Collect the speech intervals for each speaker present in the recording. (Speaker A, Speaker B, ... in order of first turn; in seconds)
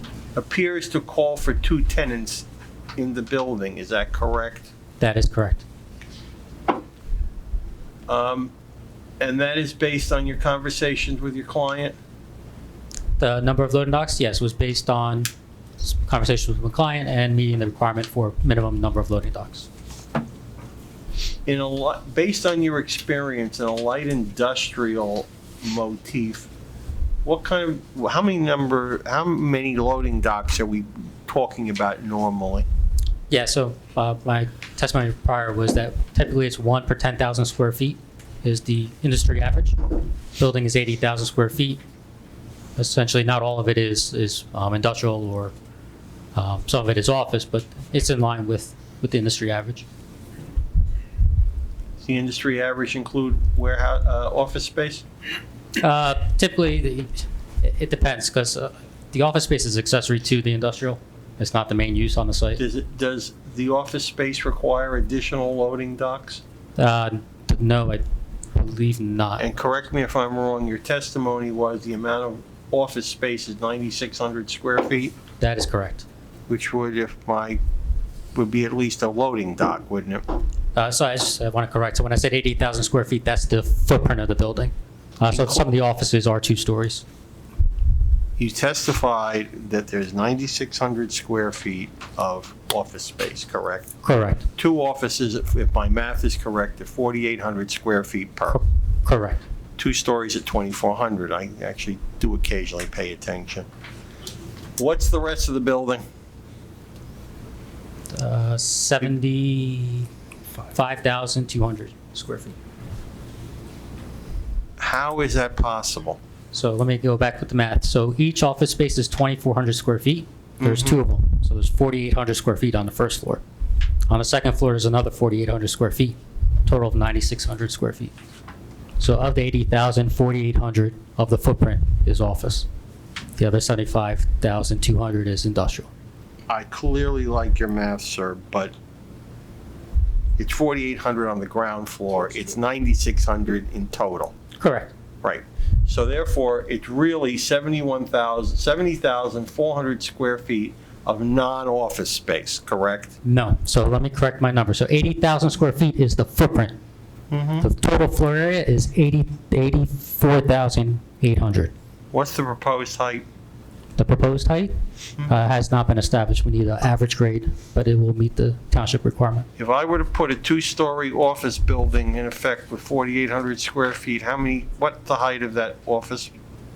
Speaker A: 0.3-4.7, 8.1-8.5, 9.2-11.9, 21.4-26.5, 27.2-32.6, 52.0-55.0, 62.6-66.4, 69.4-75.1, 76.5-77.6, 78.3-80.2, 85.3-85.7, 88.4-93.9, 94.6-98.6, 99.8-103.7, 104.8-106.0, 114.8-116.2, 120.6-121.0, 136.5-138.7, 140.4-144.3, 145.2-153.1, 157.3-157.7, 162.1-163.2, 169.6-176.3
Speaker B: 5.0-5.6, 13.2-15.3, 15.8-19.7, 33.3-39.8, 40.4-41.8, 42.8-45.5, 46.3-49.8, 55.8-62.6, 66.8-69.5, 75.4-76.0, 80.7-87.0, 94.0-94.4, 98.5-99.4, 108.1-110.1, 110.7-112.5, 116.5-123.4, 124.1-128.1, 129.0-132.7, 133.4-135.9, 144.6-144.9, 153.2-156.8, 157.6-161.7, 164.0-164.7, 165.2-169.5